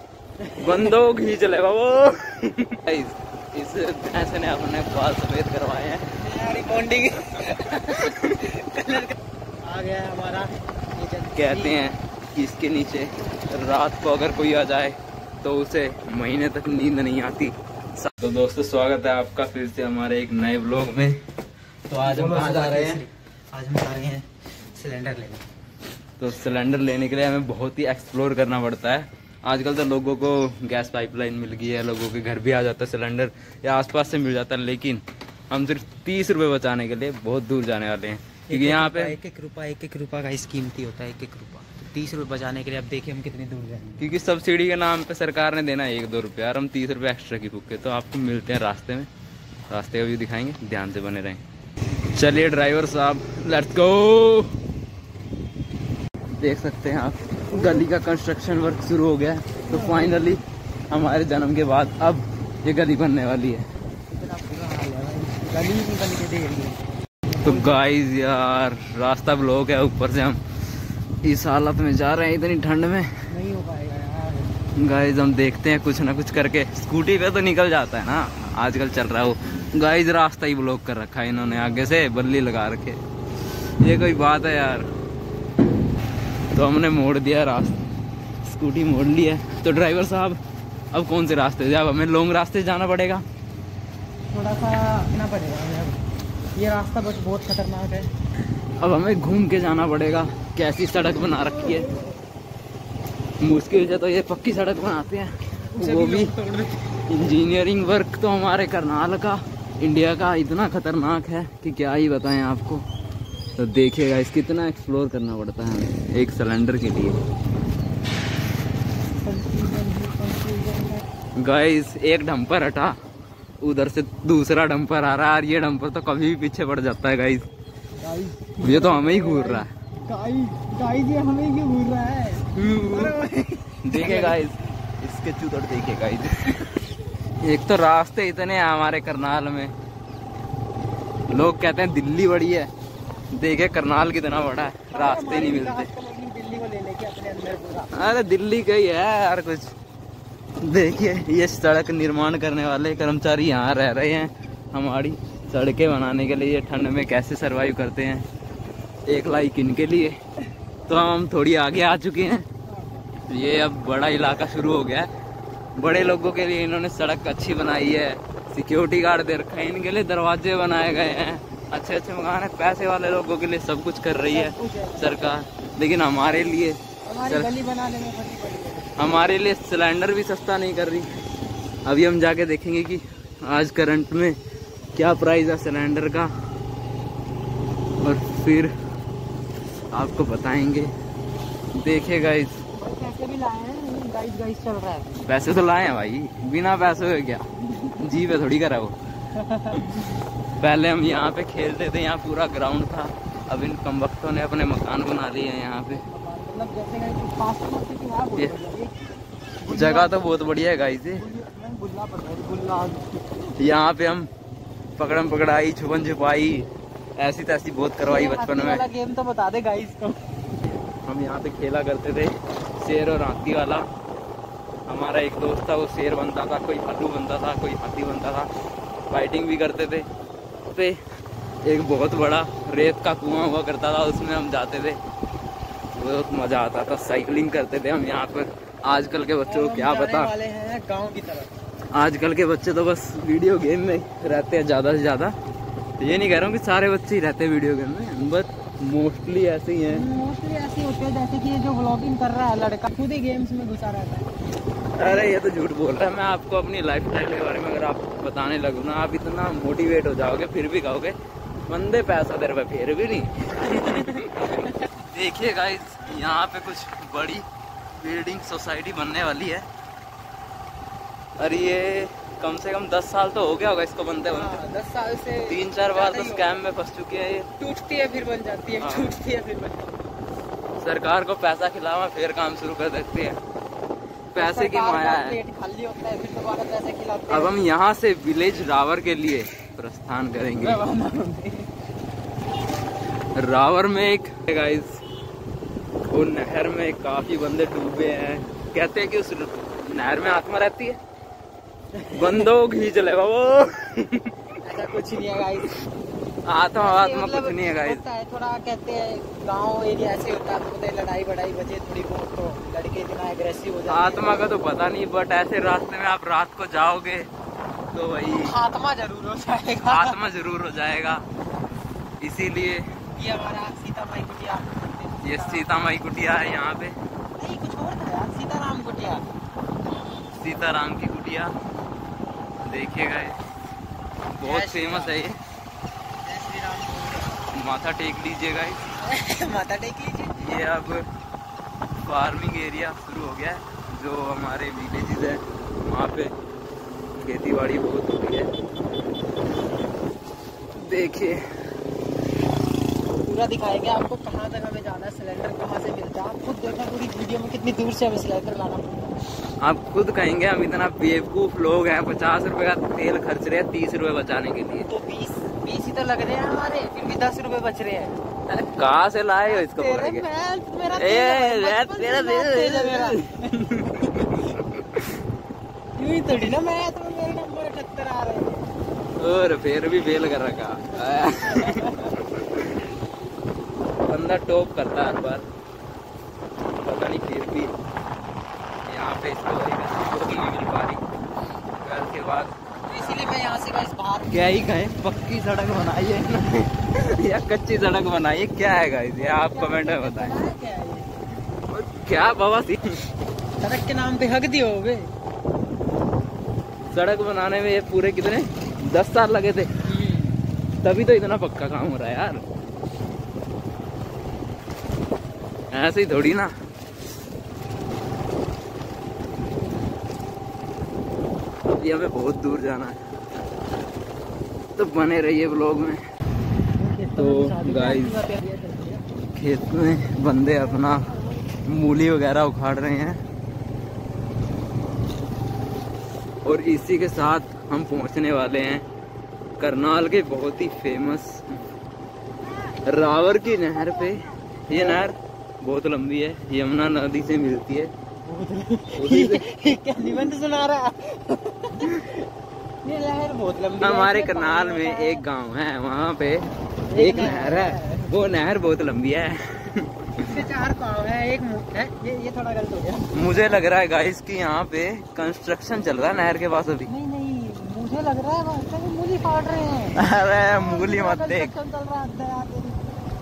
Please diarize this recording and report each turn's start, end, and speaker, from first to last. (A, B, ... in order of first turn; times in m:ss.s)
0:00.4-0:01.0 A
0:00.6-0:06.1 B
0:06.2-0:11.8 A
0:11.4-0:21.2 B
0:21.9-0:23.0 B
0:22.0-0:25.4 A
0:26.2-0:39.2 B
0:38.5-0:44.0 A
0:44.0-0:49.1 B
0:49.7-0:51.4 B
0:52.1-0:54.5 B
0:56.4-1:03.7 B
0:57.5-0:57.9 A
0:59.7-1:00.2 A
1:04.1-1:07.8 A
1:07.4-1:10.4 B
1:11.2-1:13.1 B
1:13.3-1:14.5 A
1:14.8-1:23.0 B
1:23.8-1:24.9 B
1:26.5-1:27.8 B
1:28.4-1:30.4 B
1:30.9-1:33.2 B
1:34.3-1:36.0 A
1:36.5-1:38.1 A
1:38.8-1:41.9 B
1:43.4-1:46.3 B
1:45.7-1:46.8 A
1:47.1-1:52.8 B
1:53.6-1:57.2 B
1:59.2-2:01.0 A
2:01.4-2:03.0 B
2:03.6-2:07.4 B
2:08.0-2:14.4 A
2:08.6-2:09.7 B
2:12.6-2:13.1 B
2:13.8-2:16.6 B
2:17.4-2:19.7 B
2:21.3-2:22.7 B
2:23.3-2:25.9 B
2:24.9-2:28.1 A
2:27.9-2:29.7 B
2:30.6-2:38.2 B
2:39.1-2:40.2 B
2:40.9-2:42.4 B
2:42.7-2:43.0 A
2:43.3-2:45.1 B
2:45.8-2:57.5 B
2:54.3-2:55.4 A
2:57.0-2:59.0 A
2:59.0-3:01.1 B
3:01.8-3:04.4 B
3:05.0-3:06.3 B
3:08.0-3:08.7 B
3:09.9-3:10.9 B
3:11.7-3:12.6 B
3:12.8-3:15.3 A
3:15.2-3:19.0 B
3:17.7-3:18.2 A
3:19.3-3:20.1 A
3:20.6-3:26.0 B
3:25.9-3:29.0 A
3:29.6-3:30.3 A
3:29.7-3:31.2 B
3:31.1-3:33.5 A
3:33.6-3:34.3 B
3:35.0-3:38.8 B
3:38.0-3:40.2 A
3:41.0-3:43.9 B
3:44.9-3:48.5 B
3:49.1-3:50.1 B
3:51.6-3:55.0 B
3:55.9-4:00.3 B
3:59.4-4:01.5 A
4:01.9-4:05.3 B
4:06.0-4:10.0 B
4:09.9-4:14.3 A
4:14.9-4:21.2 B
4:21.7-4:29.7 B
4:23.8-4:24.6 A
4:31.4-4:34.5 B
4:34.3-4:36.6 A
4:35.5-4:37.5 B
4:37.6-4:39.9 A
4:38.8-4:39.1 B
4:40.8-4:43.4 B
4:44.3-4:45.4 B
4:44.4-4:47.6 A
4:47.3-4:50.8 B
4:50.6-4:51.7 A
4:53.3-4:55.0 B
4:56.1-5:01.0 B
5:01.9-5:02.5 A
5:02.1-5:04.3 B
5:04.6-5:05.8 A
5:06.4-5:08.0 B
5:06.8-5:14.5 A
5:13.9-5:17.3 B
5:17.9-5:18.5 B
5:18.2-5:20.2 A
5:19.8-5:21.2 B
5:22.2-5:22.9 B
5:23.2-5:25.7 A
5:25.2-5:26.9 B
5:27.4-5:29.2 A
5:30.4-5:31.5 B
5:32.6-5:33.4 B
5:34.4-5:35.4 B
5:34.4-5:35.2 A
5:36.2-5:37.4 A
5:37.5-5:38.8 B
5:39.0-5:40.5 A
5:40.4-5:41.0 B
5:42.0-5:46.3 B
5:47.2-5:48.5 B
5:50.8-5:51.4 B
5:53.1-5:59.2 A
5:59.6-6:04.9 B
6:04.8-6:08.2 A
6:08.5-6:10.2 B
6:09.4-6:14.3 A
6:10.9-6:15.1 B
6:16.0-6:18.7 A
6:19.2-6:22.7 B
6:20.9-6:22.1 A
6:24.1-6:25.4 B
6:26.8-6:27.7 B
6:28.8-6:31.0 B
6:31.8-6:33.2 B
6:32.9-6:34.7 A
6:34.3-6:40.4 B
6:39.3-6:41.2 A
6:41.7-6:43.0 B
6:43.6-6:45.1 A
6:46.9-6:49.7 B
6:49.8-6:50.4 A
6:50.8-6:52.4 B
6:55.7-6:56.5 B
7:01.6-7:03.0 B
7:04.8-7:06.0 B
7:06.8-7:09.0 A
7:07.2-7:08.2 B
7:09.3-7:11.1 B
7:11.6-7:13.2 B
7:16.4-7:18.8 B
7:19.6-7:21.5 B
7:22.8-7:27.9 B
7:24.7-7:25.0 A
7:28.2-7:32.2 A
7:29.0-7:29.4 B
7:32.8-7:35.2 A
7:33.8-7:40.3 B
7:36.9-7:38.1 A
7:40.2-7:43.1 A
7:43.1-7:46.9 B
7:46.9-7:52.8 A
7:50.0-7:51.5 B